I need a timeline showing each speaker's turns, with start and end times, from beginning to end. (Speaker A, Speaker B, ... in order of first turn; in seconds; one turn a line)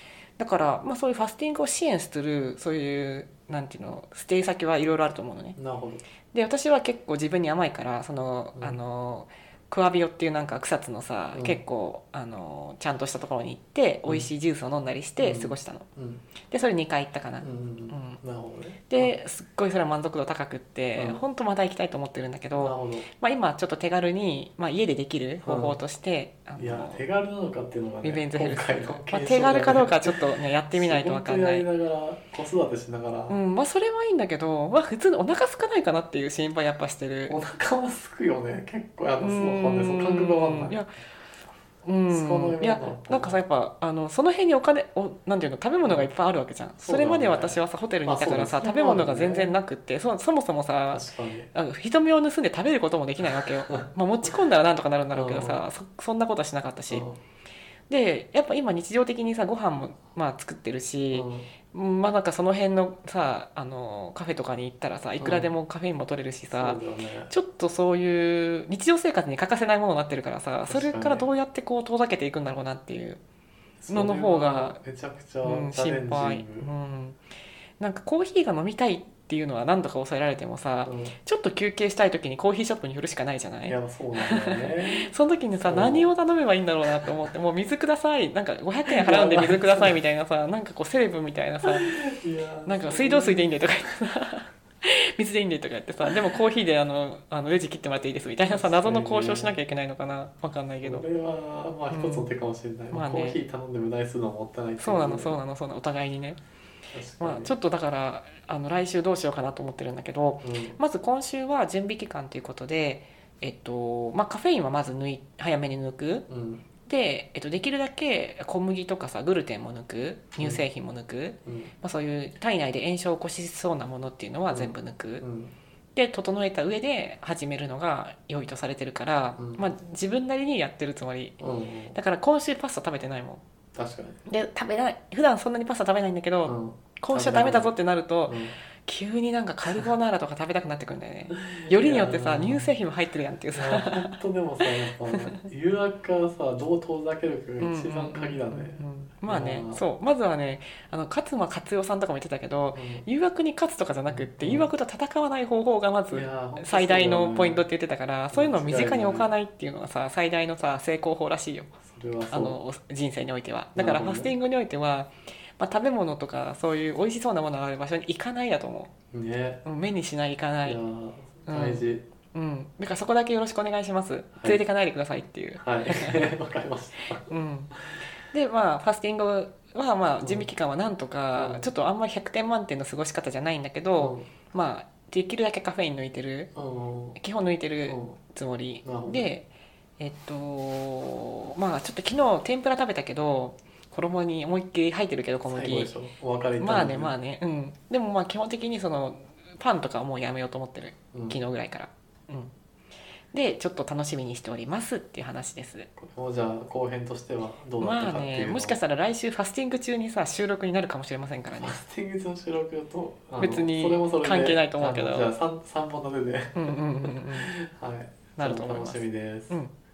Speaker A: 0.4-5.6
Speaker B: 5.5-6.0
Speaker A: 6.3-15.9
Speaker B: 8.6-8.8
Speaker B: 11.3-11.6
Speaker B: 15.2-16.2
Speaker A: 16.5-18.2
Speaker B: 17.4-19.1
Speaker A: 18.9-27.0
Speaker B: 20.9-21.2
Speaker B: 22.5-23.1
Speaker B: 25.4-25.8
Speaker B: 26.6-33.4
Speaker A: 28.0-31.7
Speaker A: 33.3-37.3
Speaker B: 37.3-40.8
Speaker A: 39.2-40.9
Speaker A: 41.8-57.0
Speaker B: 42.1-43.4
Speaker B: 45.8-46.1
Speaker B: 46.8-49.5
Speaker B: 50.9-51.5
Speaker B: 53.2-53.9
Speaker B: 55.1-55.6
Speaker B: 56.9-57.2
Speaker A: 57.9-73.2
Speaker B: 61.1-61.5
Speaker B: 65.2-65.5
Speaker B: 66.5-67.3
Speaker B: 70.7-71.3
Speaker B: 73.8-76.7
Speaker A: 73.9-74.8
Speaker A: 75.4-77.2
Speaker A: 77.8-91.9
Speaker B: 80.8-81.2
Speaker B: 83.6-86.1
Speaker B: 88.9-90.0
Speaker B: 91.6-93.6
Speaker A: 92.6-101.0
Speaker B: 98.5-99.5
Speaker B: 100.8-105.4
Speaker A: 101.9-102.3
Speaker A: 102.9-103.4
Speaker A: 104.8-106.4
Speaker B: 106.9-107.5
Speaker A: 107.2-116.2
Speaker B: 110.4-110.8
Speaker B: 116.3-116.6
Speaker A: 116.8-125.2
Speaker B: 120.4-120.6
Speaker B: 121.5-121.7
Speaker B: 124.5-125.5
Speaker A: 125.9-131.4
Speaker B: 129.4-129.7
Speaker B: 131.4-132.0
Speaker A: 131.9-133.4
Speaker B: 133.7-134.2
Speaker A: 134.3-144.2
Speaker B: 136.4-137.7
Speaker B: 138.2-138.6
Speaker B: 141.3-142.7
Speaker B: 143.5-149.8
Speaker A: 147.6-161.7
Speaker B: 152.7-153.1
Speaker B: 154.1-154.7
Speaker B: 156.1-157.7
Speaker B: 158.3-159.3
Speaker B: 161.8-162.6
Speaker A: 162.3-168.9
Speaker B: 163.7-164.3
Speaker B: 169.1-169.6
Speaker A: 169.6-170.8
Speaker B: 170.6-172.0
Speaker A: 171.4-176.3
Speaker B: 175.6-178.0
Speaker A: 177.2-186.5
Speaker B: 180.2-180.5
Speaker B: 181.3-181.7
Speaker B: 184.0-184.3
Speaker B: 186.5-187.2
Speaker A: 187.2-195.9
Speaker B: 187.8-188.2
Speaker B: 188.8-189.3
Speaker B: 195.5-197.2
Speaker A: 196.6-202.5
Speaker B: 201.1-201.4
Speaker A: 203.3-205.9
Speaker B: 206.0-208.8
Speaker A: 207.8-211.8
Speaker B: 211.6-219.6
Speaker A: 213.4-215.3
Speaker A: 216.6-217.5
Speaker A: 218.4-219.7